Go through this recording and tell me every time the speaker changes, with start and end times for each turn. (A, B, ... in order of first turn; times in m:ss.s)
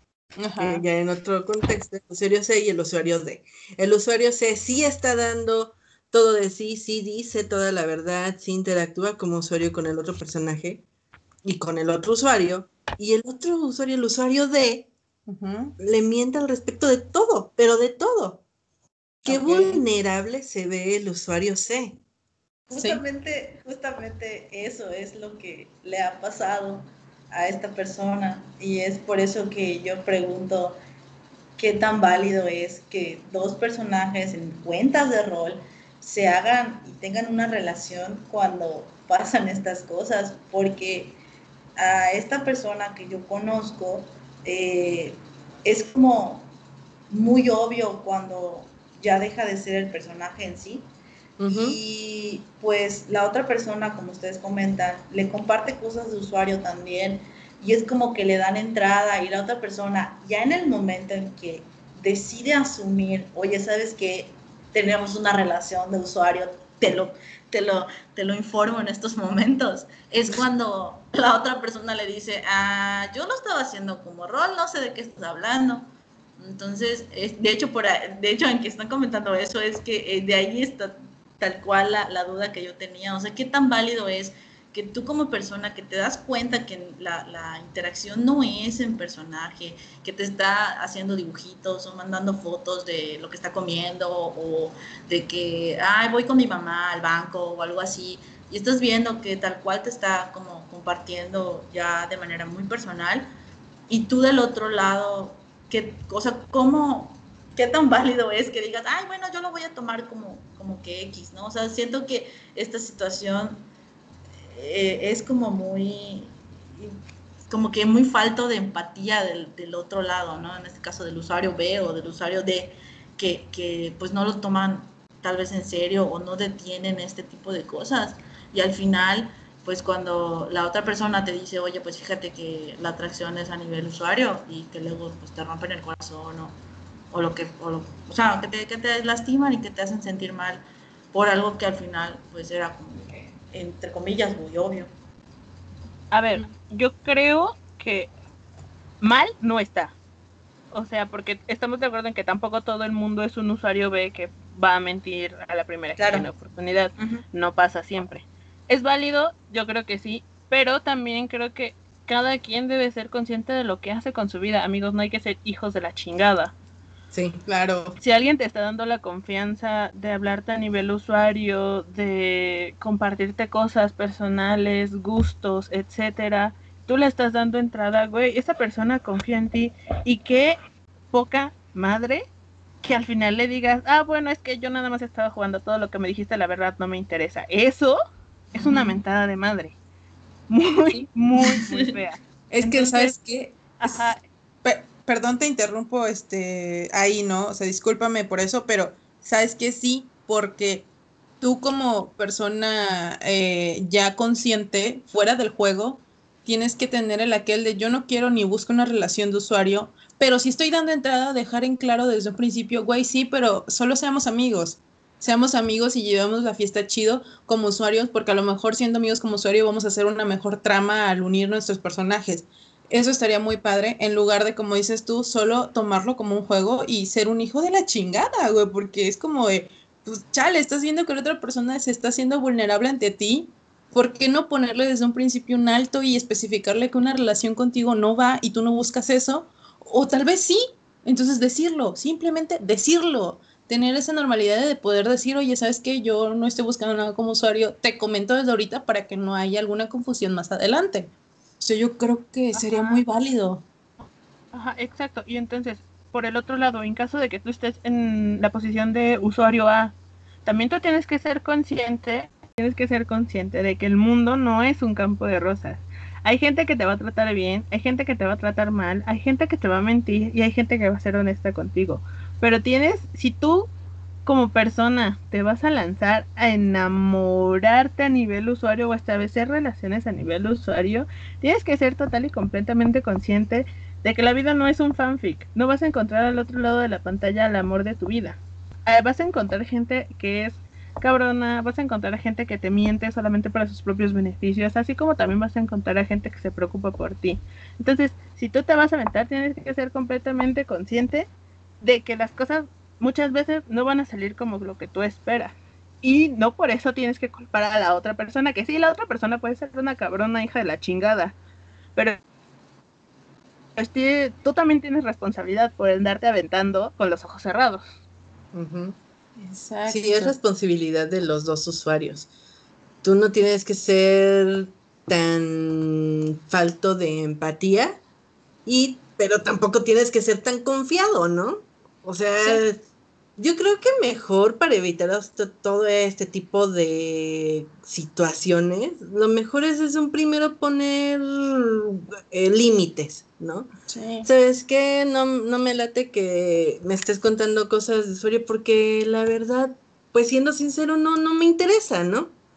0:00.4-0:00.8 A
0:00.6-0:10.8 B
0:11.4-0:14.9 B
0:15.3-0:15.7 A
0:15.8-0:18.4 B
0:19.2-0:22.0 B
0:19.2-0:19.8 A
0:22.7-0:30.8 C
0:22.7-0:23.0 A
0:31.6-0:41.2 C
0:41.8-0:46.5 C
0:47.1-0:50.9 C
0:51.4-0:51.8 B
0:51.5-1:43.3 C
1:43.9-1:53.6 C
1:54.5-1:56.9 C
1:57.5-2:16.6 C
2:17.1-2:24.9 C
2:26.1-2:28.1 D
2:29.0-2:29.9 D
2:30.7-2:46.5 D
2:36.0-2:36.3 C
2:37.0-2:37.2 C
2:47.1-2:47.4 B
2:47.5-2:48.0 A
2:48.0-3:00.6 D
3:01.1-3:02.2 D
3:02.8-3:08.0 D
3:08.6-3:09.0 C
3:08.6-3:09.8 D
3:10.5-3:13.1 D
3:11.4-3:12.0 C
3:12.5-3:14.0 A
3:13.8-3:14.2 D
3:14.6-3:20.9 A
3:21.4-4:11.1 A
4:11.6-4:13.6 A
4:12.5-4:13.0 D
4:14.5-4:33.7 D
4:34.2-5:01.3 D
5:01.8-5:11.4 D
5:13.8-5:17.8 D
5:18.5-5:19.0 B
5:19.4-5:20.3 A
5:19.9-5:22.3 B
5:23.0-5:28.0 B
5:28.6-5:32.8 B
5:33.4-5:43.7 B
5:43.9-5:44.3 A
5:44.2-5:52.3 B